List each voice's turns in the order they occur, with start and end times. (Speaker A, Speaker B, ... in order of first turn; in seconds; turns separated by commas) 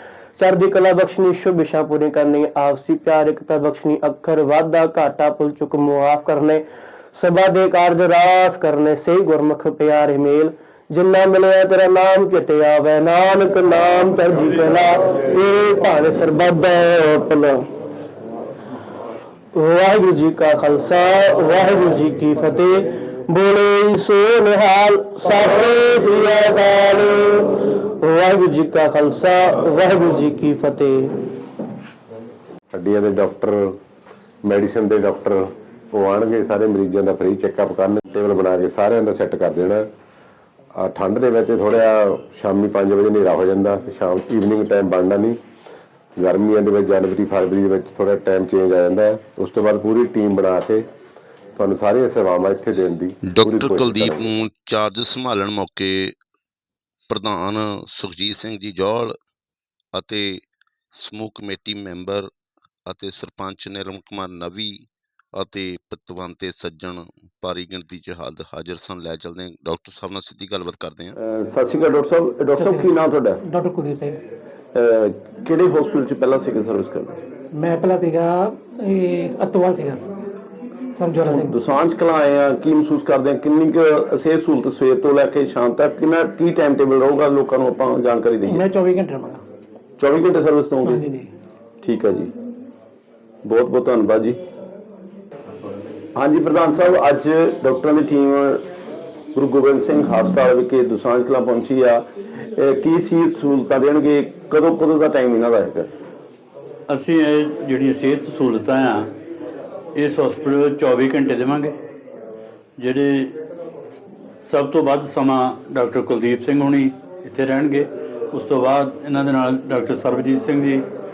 Speaker A: 0.4-6.6, Speaker A: 7.1-17.7, Speaker A: 19.5-31.2, Speaker B: 32.7-33.8, Speaker B: 34.4-39.9, Speaker B: 40.7-45.4, Speaker B: 46.2-50.9, Speaker B: 51.5-54.2, Speaker C: 53.2-56.1, Speaker C: 57.1-59.1, Speaker C: 59.9-60.4, Speaker C: 60.9-62.3, Speaker C: 62.9-71.2, Speaker D: 71.2-73.4, Speaker E: 72.5-72.9, Speaker E: 73.4-74.2, Speaker D: 74.7-77.1, Speaker E: 77.5-80.0, Speaker E: 80.9-81.5, Speaker D: 81.3-88.6, Speaker E: 88.5-89.4, Speaker D: 90.0-91.0, Speaker E: 90.8-91.3, Speaker D: 91.8-92.3, Speaker D: 93.4-94.4, Speaker D: 96.1-98.6, Speaker D: 99.3-105.9, Speaker F: 106.9-109.1, Speaker F: 110.0-111.7, Speaker F: 112.8-113.3, Speaker F: 114.4-120.8